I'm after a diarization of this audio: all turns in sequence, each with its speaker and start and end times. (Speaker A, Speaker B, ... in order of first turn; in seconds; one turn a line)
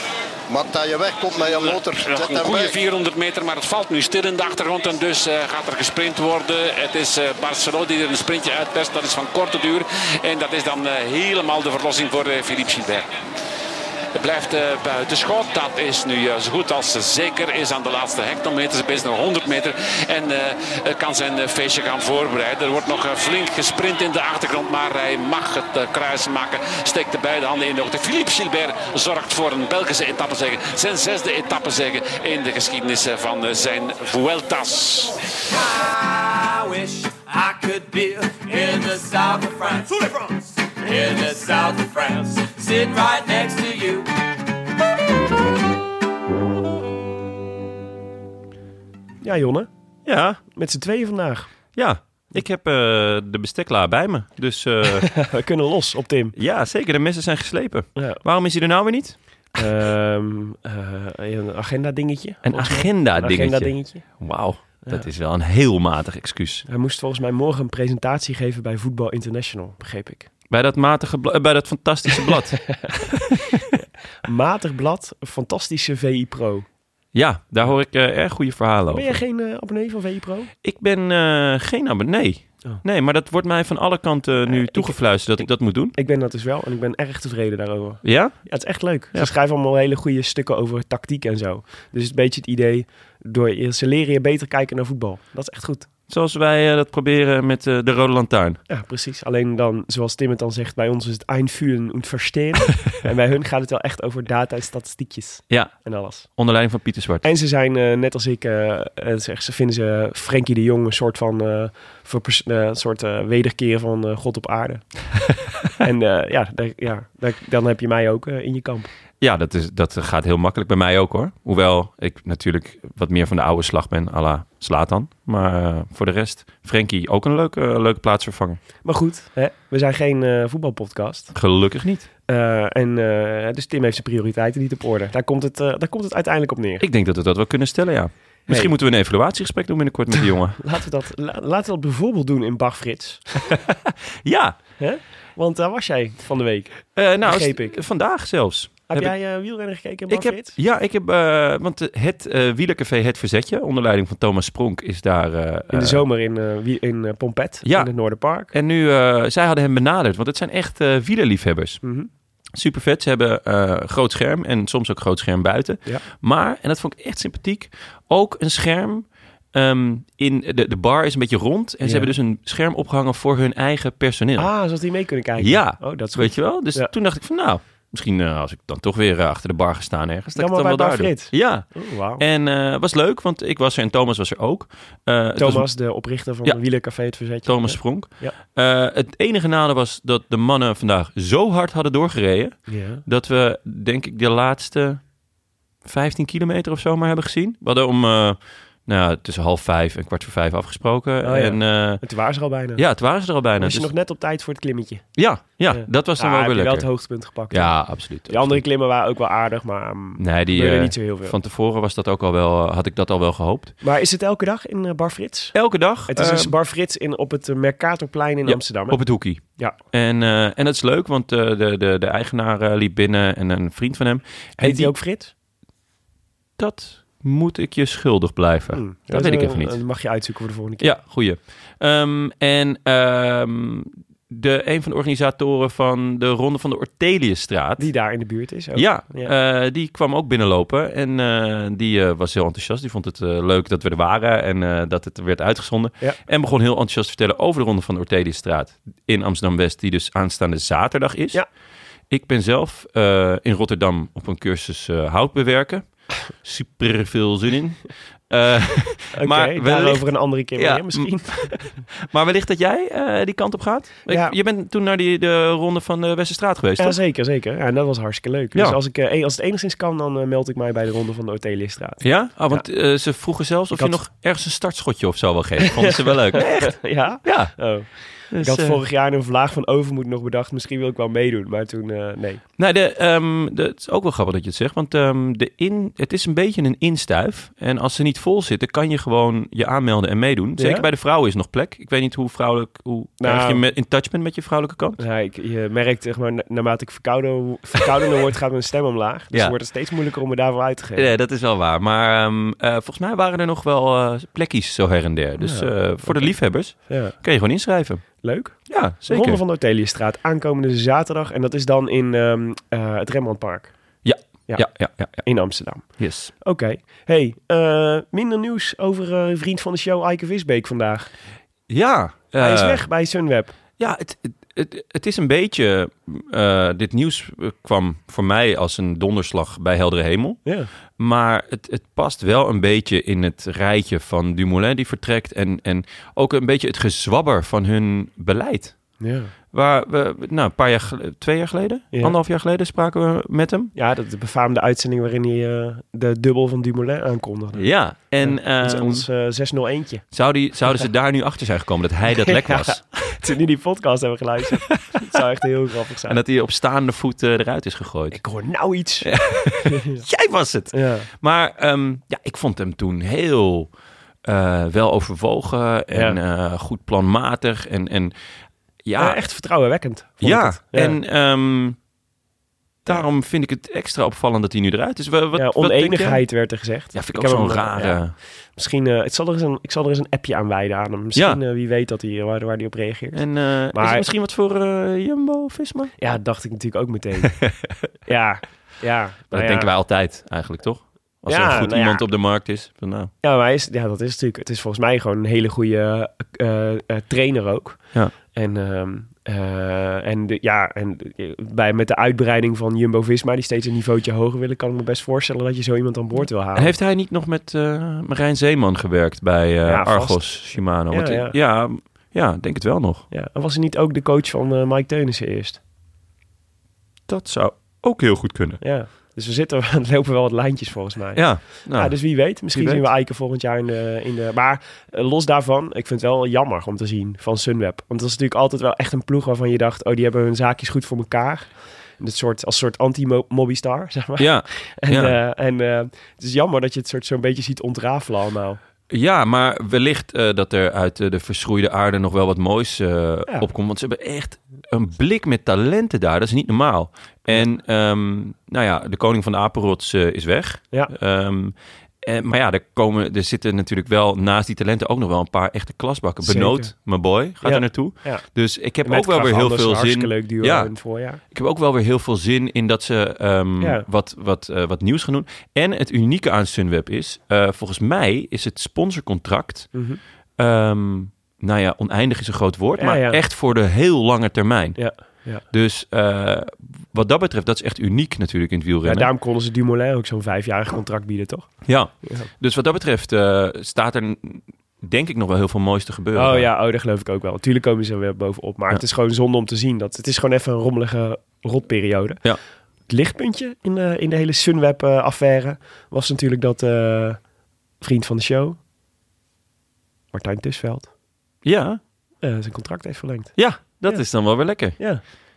Speaker A: 0.5-2.8
Speaker B: 1.4-13.1
Speaker B: 14.2-35.1
Speaker C: 35.6-44.1
Speaker D: 49.2-49.7
Speaker E: 50.1-50.4
Speaker D: 50.5-51.5
Speaker E: 51.8-55.1
Speaker D: 55.0-56.4
Speaker E: 56.4-59.2
Speaker D: 58.0-58.2
Speaker D: 59.6-64.1
Speaker E: 62.5-66.7
Speaker D: 66.7-70.3
Speaker E: 70.5-73.6
Speaker D: 72.3-72.8
Speaker D: 73.7-76.7
Speaker E: 77.1-79.2
Speaker D: 78.9-80.5
Speaker E: 80.6-86.0
Speaker D: 84.5-95.9
Speaker E: 88.0-88.6
Speaker E: 96.1-98.6
Speaker D: 98.7-106.3
Speaker E: 105.5-107.2
Speaker D: 107.2-114.9
Speaker D: 115.8-118.9
Speaker E: 119.2-128.6
Speaker D: 128.8-131.3
Speaker E: 131.3-132.1
Speaker D: 132.3-136.8
Speaker E: 136.8-140.6
Speaker D: 140.6-143.5
Speaker E: 143.5-144.6
Speaker D: 144.8-147.8
Speaker E: 147.0-149.1
Speaker D: 148.9-150.6
Speaker E: 150.1-156.0
Speaker D: 155.7-158.5
Speaker E: 157.7-157.9
Speaker E: 158.5-161.8
Speaker D: 161.8-162.1
Speaker E: 162.6-174.5
Speaker D: 171.8-172.1
Speaker D: 174.4-176.9
Speaker E: 175.4-185.7
Speaker D: 180.4-182.2
Speaker D: 185.4-188.4
Speaker E: 186.4-195.0
Speaker D: 192.7-193.0
Speaker E: 195.8-202.1
Speaker D: 201.2-202.8
Speaker E: 202.8-203.9
Speaker D: 203.6-205.1
Speaker E: 205.2-206.9
Speaker D: 205.7-211.3
Speaker E: 207.5-208.6
Speaker E: 210.2-213.8
Speaker D: 213.8-215.6
Speaker E: 215.5-216.5
Speaker D: 216.1-219.0
Speaker E: 218.4-224.9
Speaker D: 224.6-225.3
Speaker E: 226.6-229.8
Speaker D: 228.7-230.9
Speaker E: 230.8-237.9
Speaker D: 237.8-239.3
Speaker E: 238.8-251.4
Speaker E: 252.1-267.0
Speaker D: 259.2-261.8
Speaker D: 264.1-264.3
Speaker D: 266.8-272.7
Speaker E: 272.0-277.7
Speaker D: 275.8-282.4
Speaker E: 278.3-278.8
Speaker E: 282.6-295.0
Speaker D: 290.6-290.9
Speaker D: 293.2-293.6
Speaker D: 295.0-301.1
Speaker E: 301.0-309.4
Speaker D: 305.4-307.2
Speaker D: 308.2-313.7
Speaker E: 314.0-315.3
Speaker D: 314.5-321.1
Speaker E: 316.0-316.3
Speaker E: 321.7-322.8
Speaker D: 322.4-323.6
Speaker E: 323.8-330.4
Speaker D: 330.4-330.7
Speaker E: 331.0-338.9
Speaker D: 339.0-339.3
Speaker E: 339.5-343.7
Speaker D: 343.8-347.7
Speaker E: 347.6-349.1
Speaker D: 348.2-350.1
Speaker E: 350.1-352.9
Speaker D: 352.3-356.2
Speaker E: 356.1-358.2
Speaker D: 358.1-359.1
Speaker E: 359.1-363.7
Speaker D: 359.6-360.0
Speaker D: 360.7-361.1
Speaker E: 364.2-368.1
Speaker D: 365.9-366.2
Speaker E: 368.9-369.2
Speaker D: 369.0-371.0
Speaker E: 370.2-371.8
Speaker E: 372.9-376.2
Speaker D: 375.4-384.1
Speaker E: 376.9-378.1
Speaker E: 383.1-385.9
Speaker D: 386.0-387.4
Speaker E: 387.3-387.6
Speaker D: 388.1-389.7
Speaker E: 389.3-393.1
Speaker D: 391.3-392.0
Speaker D: 393.2-406.7
Speaker E: 406.6-413.1
Speaker D: 409.6-411.4
Speaker D: 413.1-415.6
Speaker E: 417.1-418.6
Speaker D: 418.6-438.6
Speaker E: 421.2-422.9
Speaker E: 434.2-435.2
Speaker E: 438.9-460.7
Speaker D: 456.2-456.7
Speaker D: 457.4-458.2
Speaker D: 458.8-461.2
Speaker E: 461.3-469.7
Speaker D: 469.7-470.0
Speaker E: 470.4-474.9
Speaker D: 472.8-473.2
Speaker D: 474.8-475.4
Speaker E: 475.5-479.1
Speaker D: 478.9-481.5
Speaker E: 481.7-486.5
Speaker D: 486.1-492.2
Speaker D: 492.9-497.2
Speaker D: 497.8-498.6
Speaker D: 500.1-500.9
Speaker E: 501.4-501.8
Speaker D: 502.2-504.0
Speaker E: 503.4-504.8
Speaker D: 504.6-505.0